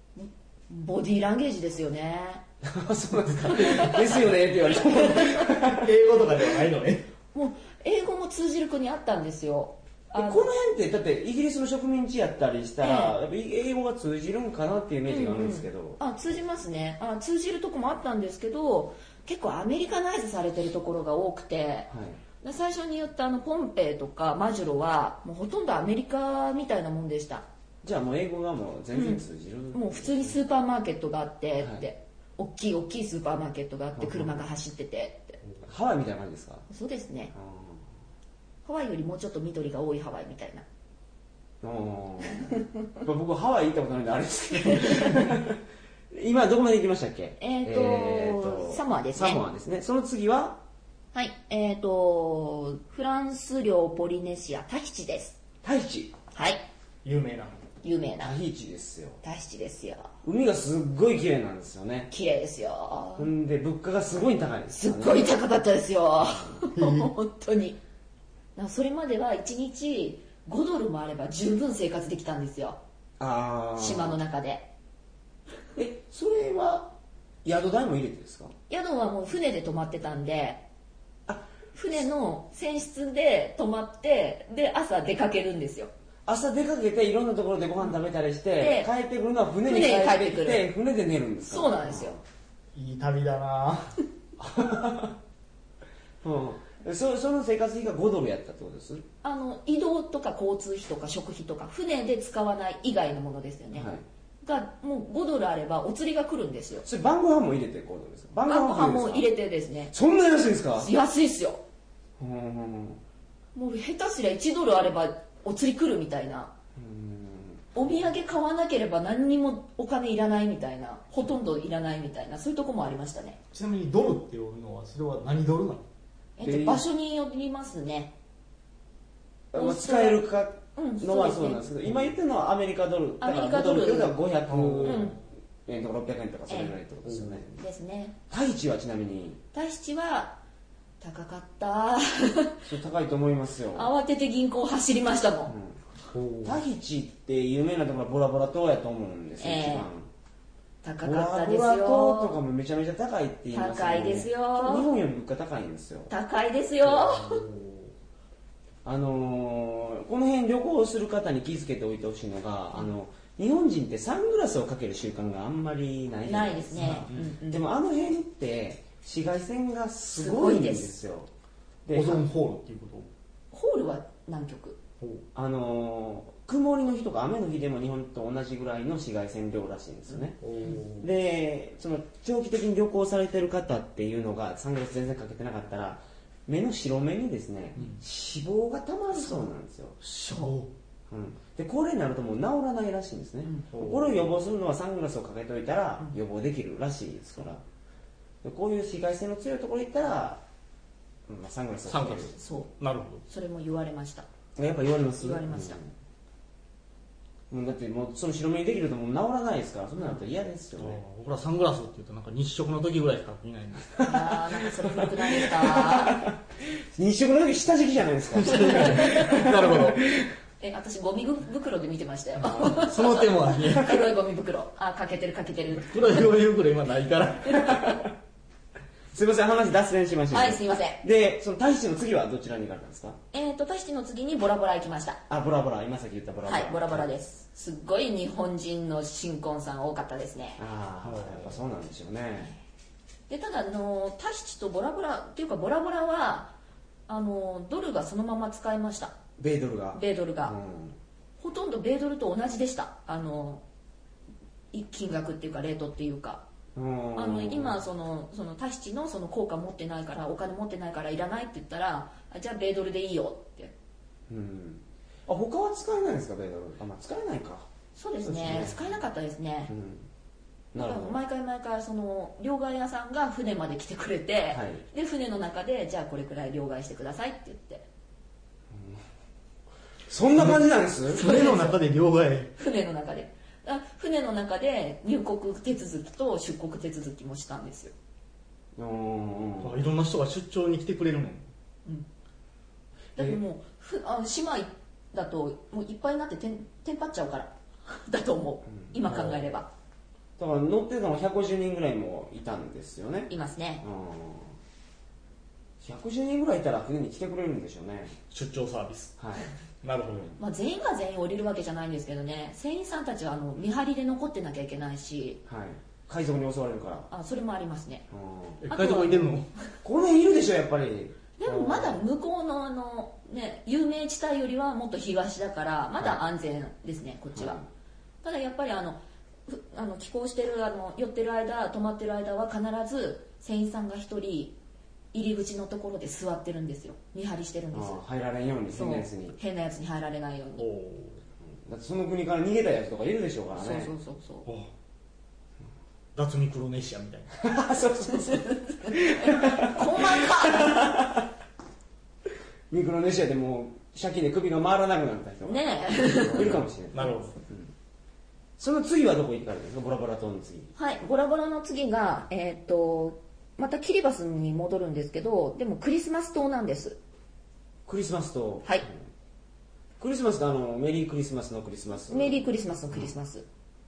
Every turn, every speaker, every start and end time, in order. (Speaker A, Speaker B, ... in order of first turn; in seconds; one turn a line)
Speaker A: 0.1-2.4
Speaker B: 2.6-5.9
Speaker A: 3.5-4.0
Speaker A: 4.8-5.4
Speaker C: 5.6-7.1
Speaker A: 7.3-10.5
Speaker B: 10.1-16.0
Speaker A: 12.8-13.2
Speaker A: 15.1-21.9
Speaker B: 21.9-22.2
Speaker A: 22.4-27.4
Speaker B: 27.8-30.4
Speaker A: 28.9-35.4
Speaker B: 34.0-34.4
Speaker B: 35.6-36.7
Speaker A: 36.7-37.3
Speaker B: 37.3-37.8
Speaker A: 38.6-40.6
Speaker B: 41.6-45.6
Speaker B: 46.1-50.6
Speaker A: 47.4-49.4
Speaker A: 51.1-55.4
Speaker B: 55.6-56.1
Speaker A: 56.3-56.6
Speaker C: 57.0-57.5
Speaker A: 57.8-58.4
Speaker B: 58.2-59.2
Speaker A: 59.2-60.1
Speaker B: 60.2-62.1
Speaker A: 62.1-63.3
Speaker B: 63.2-65.3
Speaker A: 64.7-67.8
Speaker B: 66.2-66.6
Speaker C: 66.7-67.1
Speaker A: 68.5-72.8
Speaker B: 73.2-74.2
Speaker A: 73.7-74.7
Speaker B: 75.8-76.9
Speaker B: 77.4-78.5
Speaker A: 78.7-80.6
Speaker A: 81.7-85.9
Speaker B: 86.2-92.2
Speaker A: 88.6-88.9
Speaker A: 89.6-90.7
Speaker A: 91.4-92.2
Speaker C: 92.7-94.0
Speaker B: 94.4-95.2
Speaker B: 96.2-99.0
Speaker A: 99.2-106.8
Speaker B: 103.7-104.0
Speaker B: 106.8-109.3
Speaker A: 108.5-109.9
Speaker B: 109.9-110.9
Speaker A: 110.8-111.6
Speaker B: 112.2-113.0
Speaker A: 113.5-116.5
Speaker B: 116.8-117.8
Speaker A: 117.7-123.4
Speaker C: 123.5-125.8
Speaker A: 126.4-128.1
Speaker B: 126.4-126.8
Speaker B: 129.5-135.1
Speaker A: 129.5-130.2
Speaker A: 130.7-131.7
Speaker A: 133.2-134.2
Speaker C: 134.5-135.2
Speaker A: 134.8-135.2
Speaker B: 135.7-137.6
Speaker A: 136.5-136.8
Speaker C: 137.1-137.4
Speaker A: 137.5-138.2
Speaker B: 138.3-139.4
Speaker A: 139.5-140.4
Speaker A: 141.0-142.6
Speaker B: 142.6-143.9
Speaker A: 143.7-145.5
Speaker B: 145.5-145.8
Speaker C: 146.1-146.6
Speaker B: 146.4-150.1
Speaker A: 149.4-149.9
Speaker A: 150.8-152.4
Speaker B: 151.0-156.1
Speaker A: 153.5-154.9
Speaker A: 156.1-157.4
Speaker C: 156.8-157.9
Speaker B: 158.8-171.3
Speaker A: 166.2-167.6
Speaker C: 166.8-167.3
Speaker A: 170.1-170.9
Speaker B: 171.8-172.2
Speaker C: 171.9-173.1
Speaker A: 173.5-174.8
Speaker B: 175.3-180.4
Speaker C: 180.4-181.1
Speaker B: 181.0-190.0
Speaker A: 189.2-189.5
Speaker C: 190.0-190.7
Speaker A: 190.3-190.5
Speaker B: 191.1-197.6
Speaker A: 193.4-193.7
Speaker C: 193.7-194.2
Speaker B: 198.4-200.4
Speaker B: 201.3-202.3
Speaker C: 201.9-203.2
Speaker A: 202.3-202.7
Speaker A: 203.3-204.2
Speaker B: 204.6-205.9
Speaker A: 205.2-205.8
Speaker B: 207.5-211.0
Speaker C: 210.8-214.0
Speaker B: 214.0-214.4
Speaker A: 214.0-216.2
Speaker B: 215.2-216.4
Speaker B: 216.9-220.3
Speaker C: 218.3-220.0
Speaker A: 218.7-219.1
Speaker A: 220.6-226.1
Speaker C: 222.4-224.0
Speaker B: 222.4-222.8
Speaker B: 223.7-223.9
Speaker C: 225.9-227.9
Speaker B: 227.7-228.1
Speaker B: 229.1-233.2
Speaker A: 230.3-231.0
Speaker A: 233.3-235.2
Speaker B: 235.3-237.1
Speaker A: 236.4-240.6
Speaker B: 240.6-242.5
Speaker C: 241.0-241.6
Speaker A: 243.3-246.5
Speaker A: 247.1-249.2
Speaker B: 249.4-251.0
Speaker A: 249.9-250.6
Speaker A: 251.4-253.6
Speaker A: 254.7-256.4
Speaker B: 256.7-257.8
Speaker A: 257.1-263.7
Speaker B: 264.3-267.7
Speaker A: 267.9-269.7
Speaker B: 268.2-268.9
Speaker B: 269.7-270.1
Speaker B: 270.7-271.2
Speaker A: 270.8-277.9
Speaker B: 274.5-274.8
Speaker B: 278.7-279.0
Speaker B: 280.1-281.2
Speaker C: 280.4-280.6
Speaker A: 281.1-281.8
Speaker C: 281.1-282.5
Speaker A: 282.6-287.9
Speaker B: 288.8-289.8
Speaker C: 289.6-291.5
Speaker A: 293.1-299.7
Speaker B: 298.7-299.5
Speaker B: 300.4-304.6
Speaker A: 303.3-303.8
Speaker B: 305.8-308.1
Speaker C: 308.3-309.2
Speaker B: 309.2-309.5
Speaker C: 309.8-310.4
Speaker A: 310.4-315.4
Speaker B: 315.4-317.1
Speaker A: 317.1-318.1
Speaker B: 318.1-319.1
Speaker C: 318.6-319.5
Speaker A: 318.7-319.4
Speaker B: 319.8-322.0
Speaker A: 321.4-327.6
Speaker B: 327.3-327.6
Speaker A: 328.2-334.6
Speaker A: 335.1-338.0
Speaker B: 337.7-339.4
Speaker A: 338.7-340.7
Speaker C: 340.6-341.2
Speaker B: 341.6-343.9
Speaker A: 343.6-344.5
Speaker C: 346.1-347.3
Speaker B: 347.3-351.2
Speaker A: 348.3-350.9
Speaker B: 352.7-357.7
Speaker A: 355.4-356.6
Speaker C: 356.9-357.3
Speaker B: 358.6-360.7
Speaker A: 360.7-367.0
Speaker B: 367.9-368.9
Speaker B: 370.0-373.1
Speaker A: 372.1-373.4